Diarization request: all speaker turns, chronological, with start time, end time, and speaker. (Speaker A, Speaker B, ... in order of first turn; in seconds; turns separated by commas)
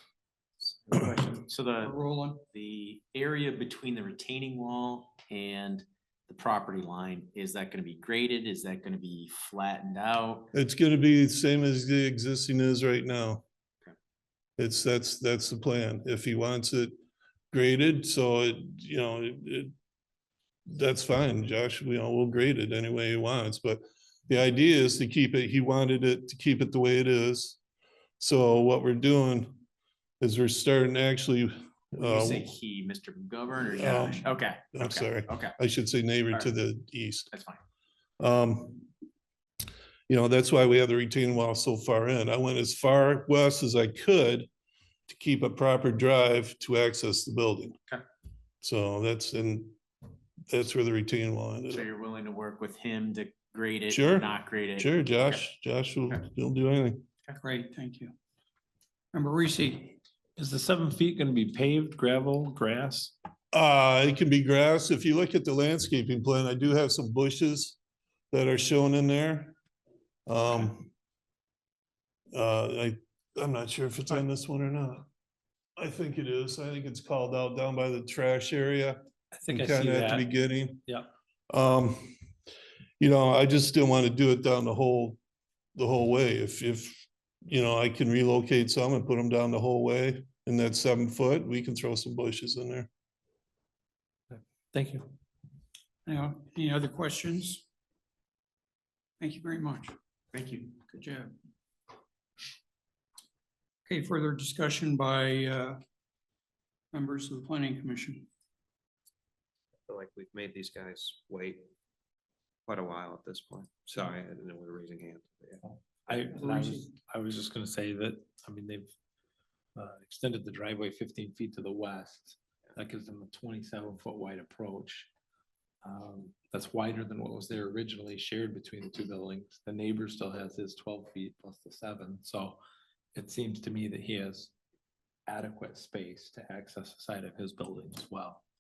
Speaker A: 0.7-10.5, Speaker B: 1.8-2.4, Speaker C: 10.5-13.4, Speaker C: 14.6-16.9, Speaker C: 17.5-19.7, Speaker C: 20.7-27.6, Speaker C: 28.2-29.6, Speaker C: 30.2-32.5, Speaker A: 32.0-35.6, Speaker C: 33.8-37.3, Speaker A: 37.3-37.6, Speaker C: 38.2-38.9, Speaker C: 40.1-44.5, Speaker C: 45.1-47.8, Speaker C: 48.6-49.8, Speaker C: 50.5-51.8, Speaker A: 51.7-55.5, Speaker C: 53.9-57.0, Speaker B: 57.4-58.1, Speaker B: 59.1-60.0, Speaker D: 60.4-63.1, Speaker C: 63.5-67.8, Speaker C: 68.3-69.5, Speaker C: 70.3-70.9, Speaker C: 72.3-75.1, Speaker C: 75.8-80.8, Speaker D: 79.4-80.3, Speaker C: 81.5-82.1, Speaker C: 83.0-85.2, Speaker C: 85.8-92.9, Speaker D: 94.3-95.1, Speaker B: 96.1-97.7, Speaker B: 99.2-100.0, Speaker A: 100.4-100.6, Speaker B: 100.8-101.3, Speaker B: 103.9-105.8, Speaker B: 106.9-108.3, Speaker E: 109.9-111.7, Speaker E: 112.7-115.6, Speaker D: 116.1-118.9, Speaker B: 116.4-116.9, Speaker D: 119.8-125.1, Speaker D: 125.8-132.6, Speaker D: 133.1-134.5, Speaker D: 135.3-138.4